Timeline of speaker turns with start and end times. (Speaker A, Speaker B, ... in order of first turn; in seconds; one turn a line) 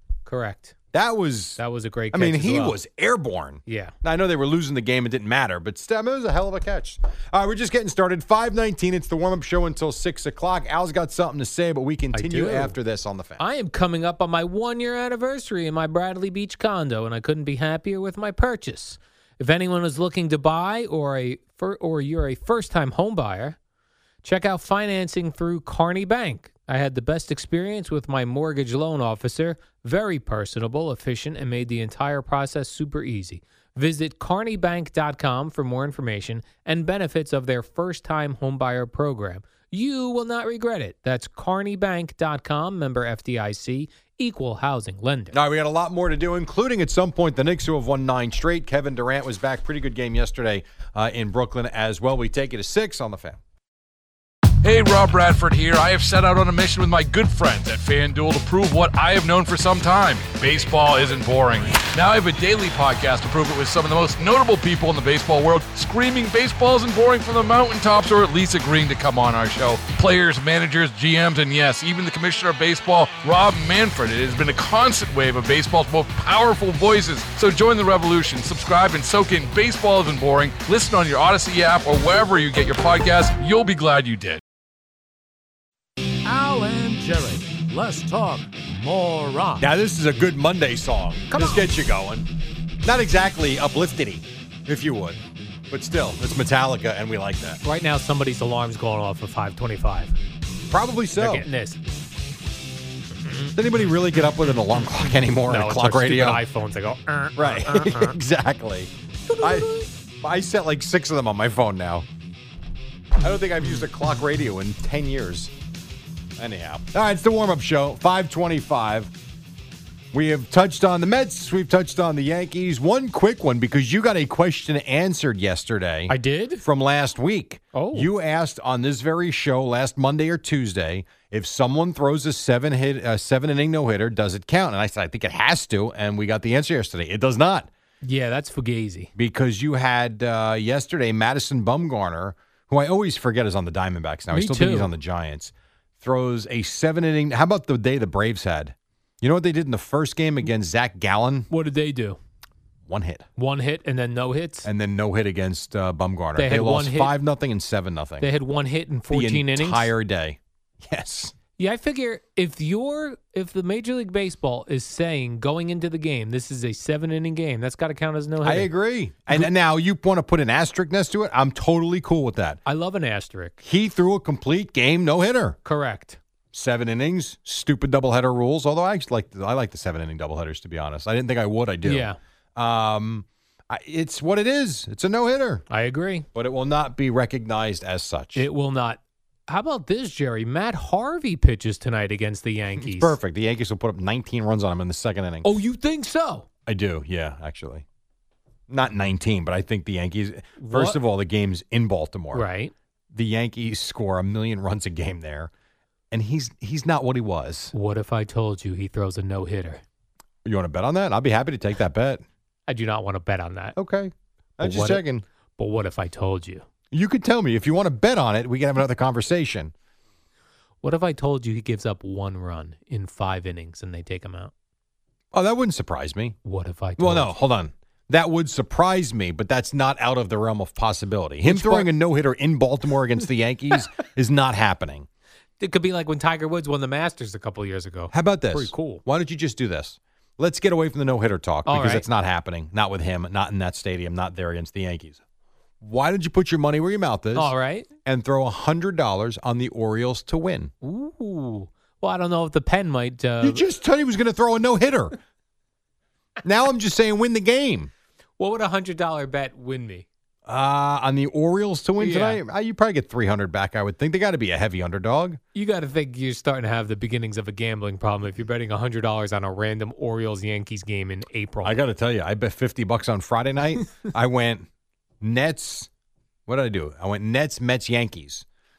Speaker A: 0.3-0.8
Speaker B: 0.9-1.6
Speaker A: 1.6-2.8
Speaker B: 2.1-13.4
Speaker A: 3.7-3.9
Speaker A: 12.1-12.8
Speaker A: 13.4-23.6
Speaker A: 24.2-45.4
Speaker B: 45.3-53.4
Speaker C: 54.6-84.4
Speaker D: 86.2-89.6
Speaker B: 89.6-92.3
Speaker A: 91.3-91.7
Speaker B: 92.8-97.6
Speaker A: 97.6-100.2
Speaker B: 100.7-101.5
Speaker A: 101.2-101.8
Speaker A: 103.2-103.6
Speaker B: 103.5-106.4
Speaker A: 104.2-108.2
Speaker B: 107.4-112.1
Speaker A: 109.3-109.9
Speaker B: 113.2-115.5
Speaker B: 116.4-119.1
Speaker B: 120.1-137.7
Speaker A: 126.1-126.6
Speaker A: 127.7-128.1
Speaker A: 138.0-139.1
Speaker B: 139.2-151.5
Speaker A: 144.3-144.9
Speaker A: 151.5-152.2
Speaker B: 152.9-153.3
Speaker A: 153.4-154.7
Speaker B: 154.6-158.3
Speaker A: 156.4-157.2
Speaker A: 158.2-159.9
Speaker B: 159.1-161.3
Speaker A: 161.6-168.7
Speaker B: 168.4-172.6
Speaker A: 172.7-173.6
Speaker B: 173.6-175.6
Speaker A: 175.7-176.2
Speaker B: 176.5-185.6
Speaker A: 181.8-182.2
Speaker A: 185.7-186.3
Speaker B: 186.3-188.5
Speaker A: 188.3-193.2
Speaker B: 192.8-195.5
Speaker A: 195.4-196.5
Speaker B: 196.7-197.8
Speaker B: 198.7-202.5
Speaker A: 200.6-201.0
Speaker A: 202.3-202.7
Speaker B: 203.1-205.5
Speaker B: 206.1-207.7
Speaker A: 207.7-209.8
Speaker B: 210.4-212.2
Speaker A: 212.7-213.8
Speaker B: 213.8-215.2
Speaker A: 214.6-215.0
Speaker A: 215.6-216.7
Speaker B: 216.9-219.7
Speaker A: 220.8-224.5
Speaker B: 225.3-226.4
Speaker A: 226.4-227.3
Speaker B: 227.0-235.1
Speaker A: 231.4-231.9
Speaker A: 235.6-239.0
Speaker B: 238.1-245.2
Speaker A: 241.7-242.1
Speaker B: 245.8-247.5
Speaker A: 247.3-247.9
Speaker B: 248.1-250.7
Speaker A: 250.8-253.6
Speaker B: 253.4-255.2
Speaker B: 256.4-257.9
Speaker A: 258.4-260.1
Speaker B: 260.5-265.4
Speaker A: 262.0-262.4
Speaker A: 265.6-271.8
Speaker B: 271.6-274.7
Speaker B: 275.2-275.9
Speaker B: 276.5-278.4